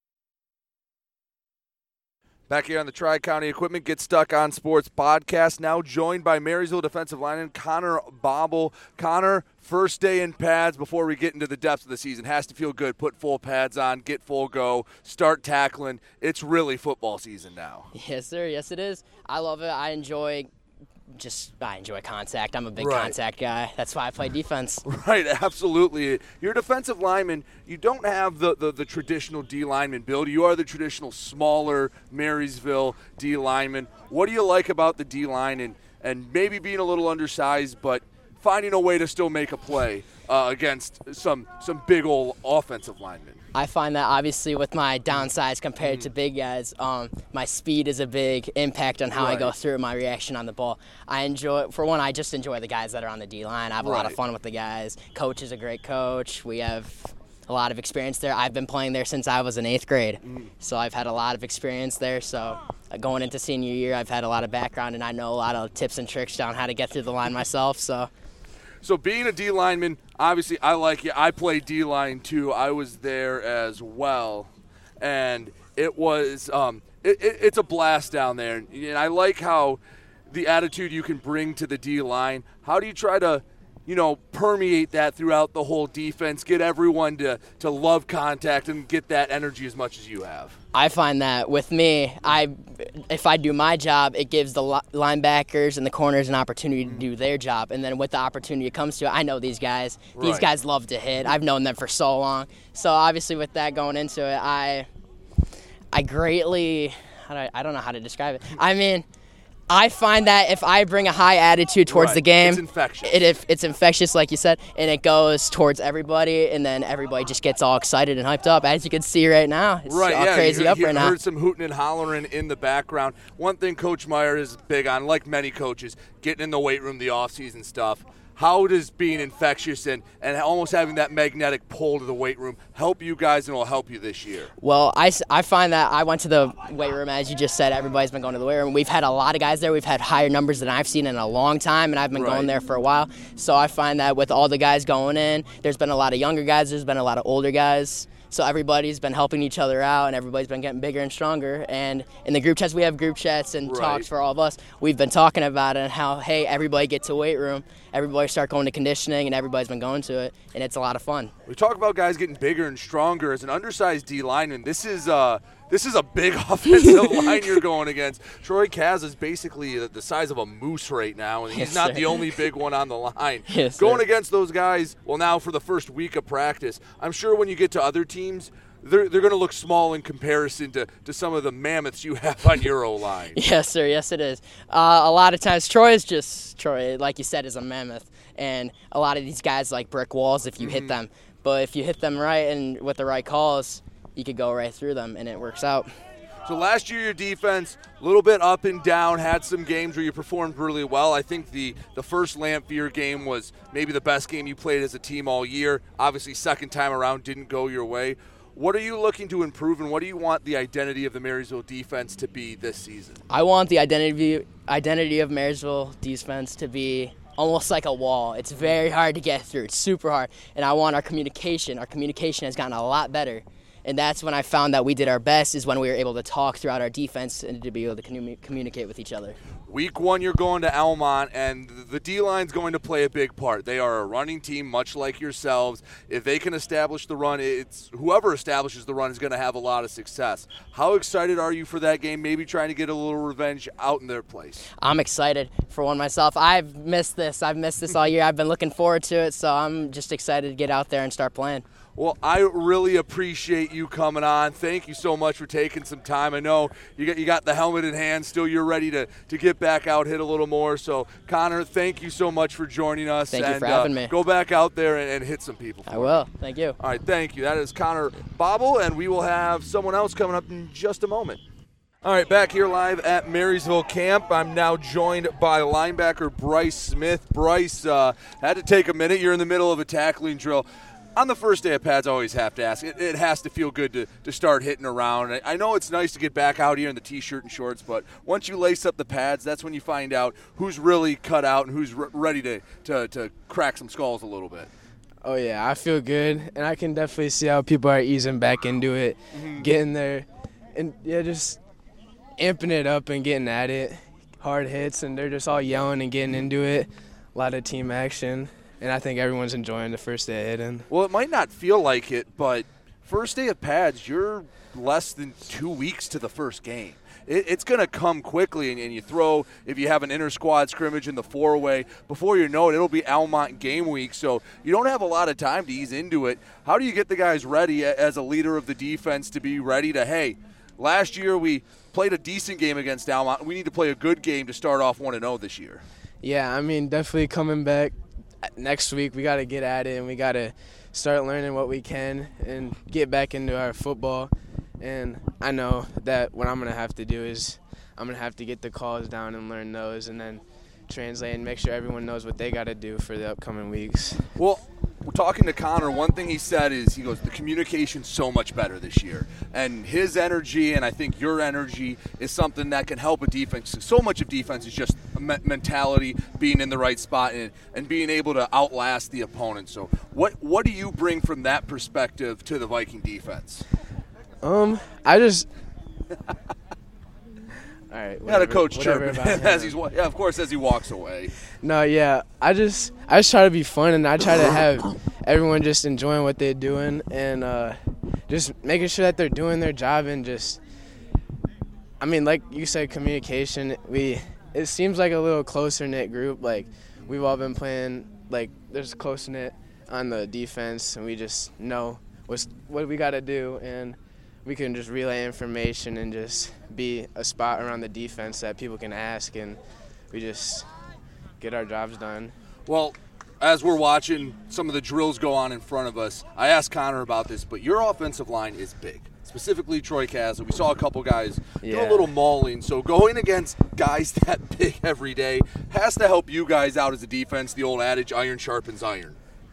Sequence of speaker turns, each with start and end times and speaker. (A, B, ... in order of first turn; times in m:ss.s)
0:02.5-0:17.9 A
0:17.9-0:20.5 B
0:21.2-0:24.8 B
0:22.8-0:23.2 A
0:24.8-0:43.4 A
0:43.5-1:08.1 B
0:45.8-0:46.1 A
0:49.1-0:49.6 A
0:53.8-0:54.2 A
1:00.2-1:00.5 A
1:08.8-1:30.6 A
1:30.7-1:44.9 B
1:36.8-1:37.1 A
1:40.2-1:40.5 A
1:45.9-1:49.0 B
1:49.7-2:01.2 B
1:51.9-1:53.2 A
1:59.8-2:14.5 A
2:14.6-2:41.3 B
2:22.1-2:22.5 A
2:33.6-2:34.1 A
2:41.5-3:03.4 A
2:46.8-2:47.4 B
2:51.5-2:52.3 B
2:53.5-2:54.0 B
3:03.3-3:15.9 B
3:10.6-3:11.0 A
3:16.5-3:33.2 A
3:33.3-3:49.4 B
3:49.7-4:04.6 A
4:04.8-4:11.6 B
4:12.0-4:26.2 A
4:23.3-4:24.1 B
4:25.9-4:26.8 B
4:26.8-4:31.4 A
4:32.0-4:54.7 A
4:55.2-5:01.6 C
4:59.3-4:59.7 A
5:02.4-5:10.9 C
5:10.9-5:35.8 A
5:36.2-5:54.3 C
5:54.4-6:13.6 A
6:14.4-6:15.5 C
6:17.9-6:19.8 C
6:18.2-6:21.3 A
6:21.6-6:30.6 C
6:32.0-6:49.6 C
6:50.1-6:50.7 C
6:51.4-6:52.4 C
6:52.7-7:09.2 A
7:01.6-7:02.1 C